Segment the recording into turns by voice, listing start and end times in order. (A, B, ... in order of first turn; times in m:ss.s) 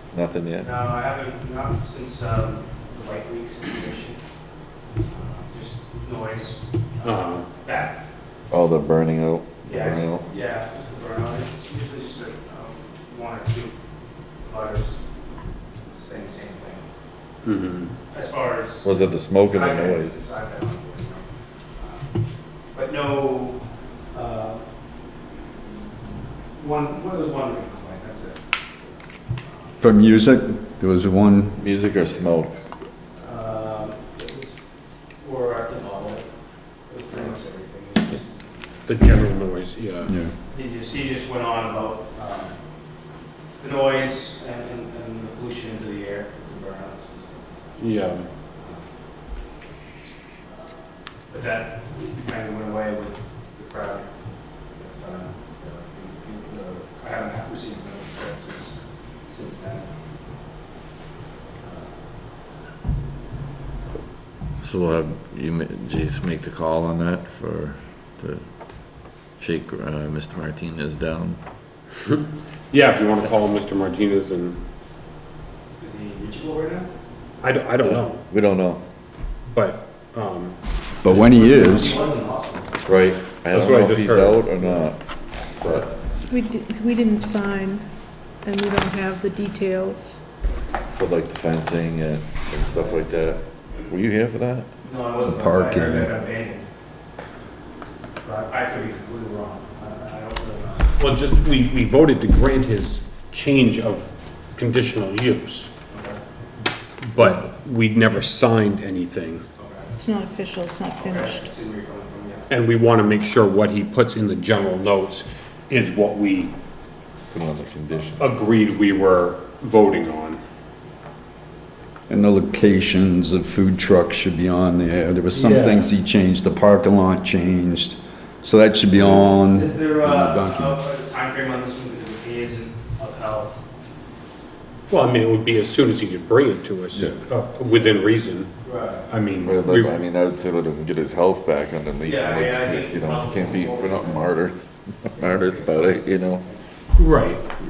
0:00.1-0:00.7 A
0:00.6-0:04.2 B
0:05.1-0:08.0 B
0:07.0-0:07.5 C
0:08.5-0:10.3 A
0:09.6-0:13.7 B
0:14.4-0:15.0 B
0:15.9-0:16.9 B
0:17.4-0:17.9 C
0:18.1-0:18.9 B
0:18.8-0:20.1 A
0:19.5-0:21.2 B
0:21.8-0:22.1 B
0:22.7-0:24.6 B
0:26.6-0:29.8 B
0:29.8-0:31.6 D
0:31.6-0:32.5 A
0:33.2-0:34.6 B
0:35.2-0:36.3 B
0:36.9-0:38.3 B
0:38.8-0:40.2 C
0:40.0-0:40.3 D
0:40.5-0:42.6 B
0:43.6-0:47.5 B
0:47.8-0:48.3 C
0:48.6-0:48.8 B
0:51.3-0:54.1 B
0:54.7-0:59.9 B
1:01.6-1:02.0 B
1:04.6-1:11.4 A
1:12.0-1:14.6 C
1:15.8-1:16.9 B
1:17.4-1:18.2 C
1:17.8-1:18.8 A
1:19.5-1:21.8 C
1:21.0-1:22.0 D
1:21.3-1:22.8 B
1:22.8-1:25.9 A
1:23.5-1:24.4 C
1:25.6-1:25.9 B
1:26.3-1:27.8 E
1:28.4-1:30.2 E
1:30.9-1:34.7 A
1:34.8-1:36.6 B
1:35.2-1:36.2 D
1:38.2-1:40.9 B
1:41.0-1:45.7 C
1:45.9-1:46.2 B
1:47.0-1:49.5 C
1:49.6-1:49.9 B
1:49.9-1:51.5 E
1:51.0-1:52.5 B
1:52.5-1:56.5 C
1:57.3-1:58.3 A
1:58.2-2:00.4 C
2:02.1-2:10.8 D
2:05.3-2:05.9 C
2:09.1-2:13.6 B
2:14.9-2:18.5 C
2:18.6-2:19.0 B
2:19.1-2:20.0 C
2:19.4-2:26.4 A
2:22.0-2:24.2 B
2:25.2-2:26.5 B
2:27.0-2:27.4 C